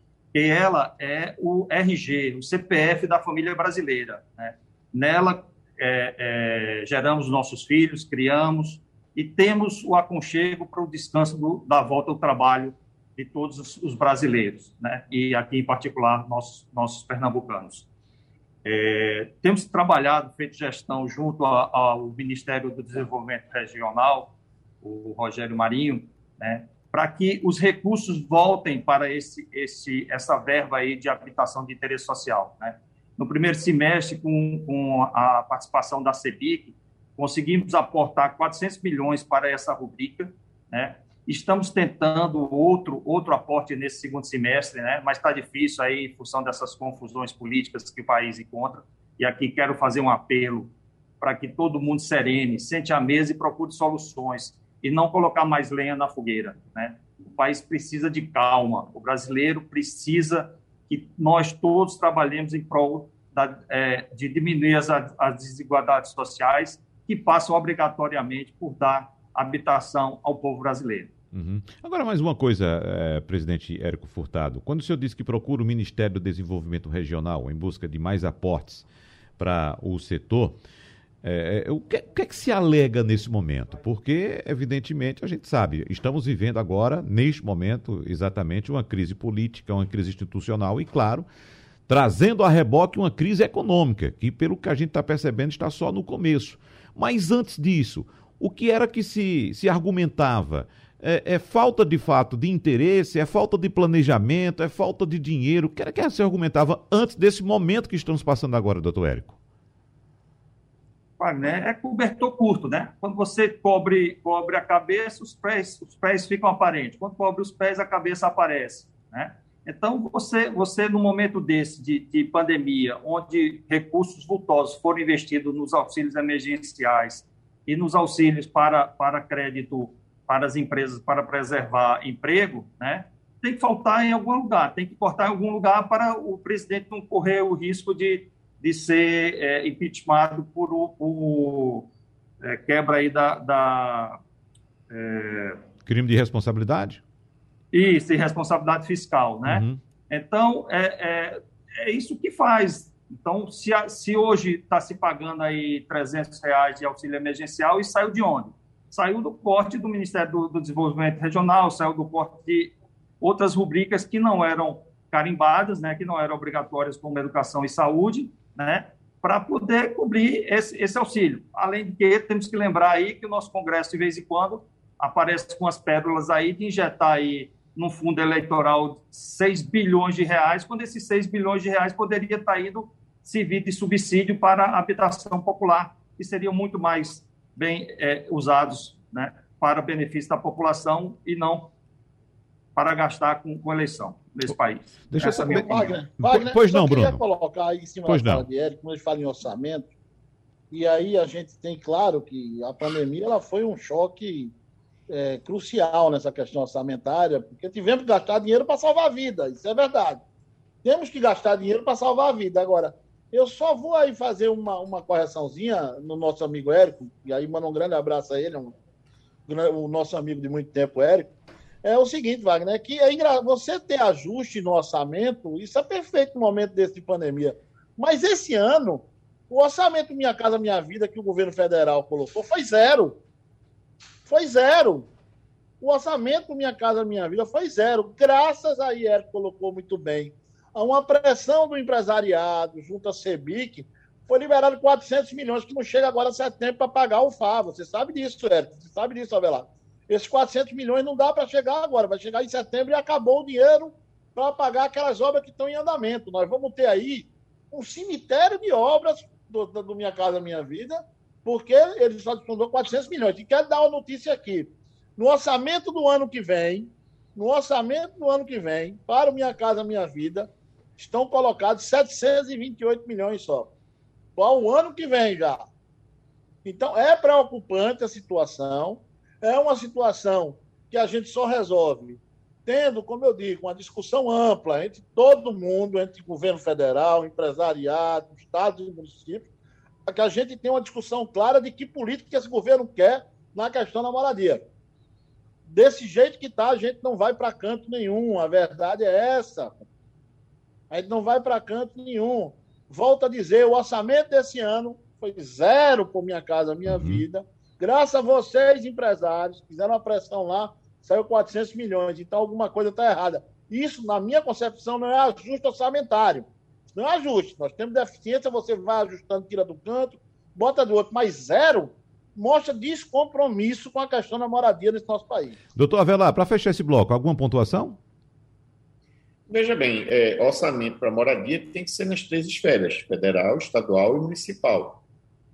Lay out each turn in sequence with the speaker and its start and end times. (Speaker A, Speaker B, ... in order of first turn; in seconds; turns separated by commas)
Speaker A: 0.3-17.9, Speaker A: 18.6-71.1, Speaker B: 71.3-78.9, Speaker B: 79.4-80.6, Speaker B: 81.2-91.2, Speaker B: 91.9-109.4, Speaker A: 111.2-141.9, Speaker A: 142.4-144.2, Speaker A: 144.9-145.6, Speaker B: 145.9-147.0, Speaker A: 147.7-191.7, Speaker B: 149.4-149.8, Speaker A: 192.8-195.9, Speaker B: 195.1-197.2, Speaker C: 195.5-199.9, Speaker B: 198.1-198.4, Speaker C: 200.7-204.5, Speaker C: 205.1-210.2, Speaker C: 210.8-218.8, Speaker C: 219.5-221.3, Speaker C: 221.8-233.2, Speaker C: 234.3-235.1, Speaker C: 235.8-273.7, Speaker C: 274.4-275.6, Speaker C: 276.6-289.5, Speaker C: 290.1-294.6, Speaker C: 295.6-299.9, Speaker C: 300.9-325.6, Speaker B: 306.9-307.2, Speaker B: 325.8-328.0, Speaker D: 329.5-335.0